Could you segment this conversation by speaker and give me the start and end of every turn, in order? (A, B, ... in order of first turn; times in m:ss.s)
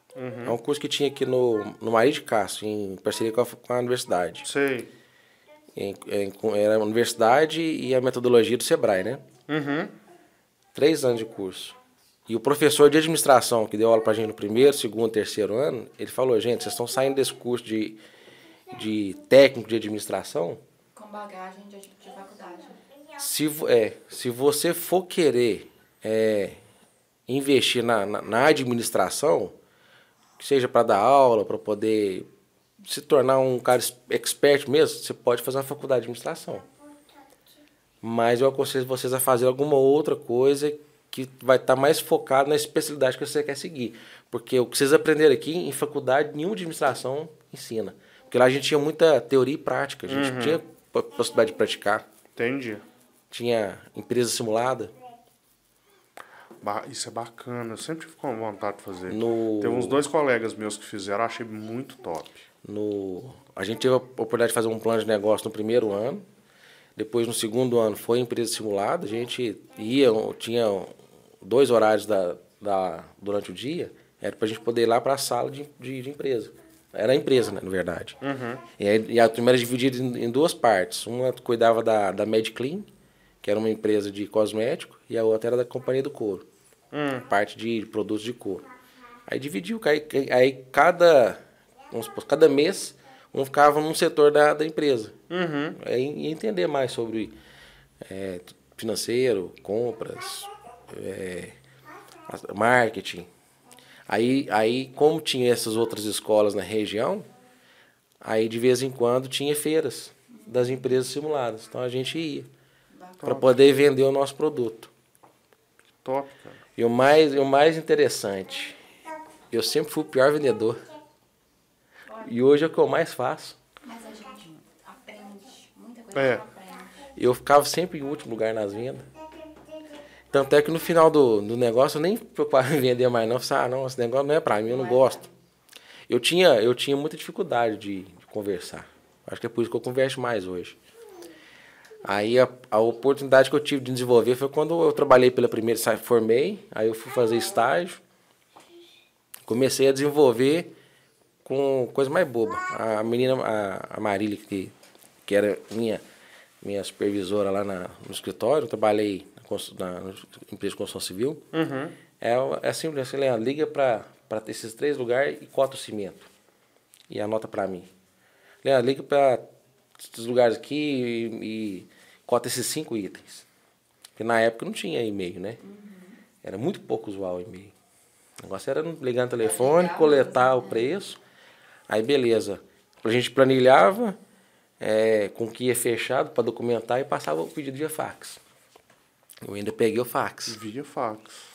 0:00.2-0:00.6 A
0:00.4-0:04.5 B
0:04.4-0:04.9 A
0:05.8-0:09.2 B
0:09.5-0:09.9 A
0:10.8-0:11.8 B
0:12.3-0:18.0 B
0:18.7-0:20.6 B
0:21.0-0:22.8 C
0:23.2-0:26.6 B
0:27.3-0:29.5 B
0:30.4-0:32.3 B
0:32.8-0:36.7 B
0:38.0-0:52.1 B
0:50.1-0:50.6 A
0:52.4-0:52.8 A
0:53.3-0:54.9 B
0:56.6-1:02.4 A
0:59.1-1:00.0 B
1:02.6-1:06.2 B
1:07.0-1:18.2 B
1:18.2-1:18.6 A
1:18.8-1:22.9 B
1:23.4-1:26.5 B
1:26.9-1:27.3 A
1:27.2-1:28.6 B
1:29.3-1:35.2 B
1:35.3-1:35.8 A
1:35.8-1:37.4 B
1:38.0-1:41.6 B
1:42.3-1:43.3 B
1:44.1-1:47.3 B
1:48.2-1:52.5 B
1:53.2-1:53.6 A
1:53.2-1:54.9 B
1:56.0-1:56.6 A
1:56.8-1:58.8 B
1:59.5-2:00.9 B
2:02.2-2:03.6 B
2:03.8-2:07.1 C
2:06.1-2:06.4 A
2:07.2-2:09.1 B
2:10.3-2:15.2 B
2:14.7-2:15.1 C
2:16.1-2:20.8 B
2:22.0-2:28.0 B
2:29.5-2:30.7 B
2:31.4-2:34.7 B
2:35.3-2:36.0 B
2:36.6-2:41.5 B
2:41.5-2:42.0 A
2:42.2-2:46.3 B
2:47.1-2:47.9 B
2:48.6-2:49.5 B
2:50.0-2:53.4 B
2:54.2-2:55.6 B
2:55.6-2:56.1 C
2:56.4-2:57.7 B
2:58.4-3:01.2 B
2:59.6-3:00.6 C
3:01.9-3:04.2 B
3:04.8-3:08.4 B
3:09.4-3:10.6 B
3:10.5-3:11.4 A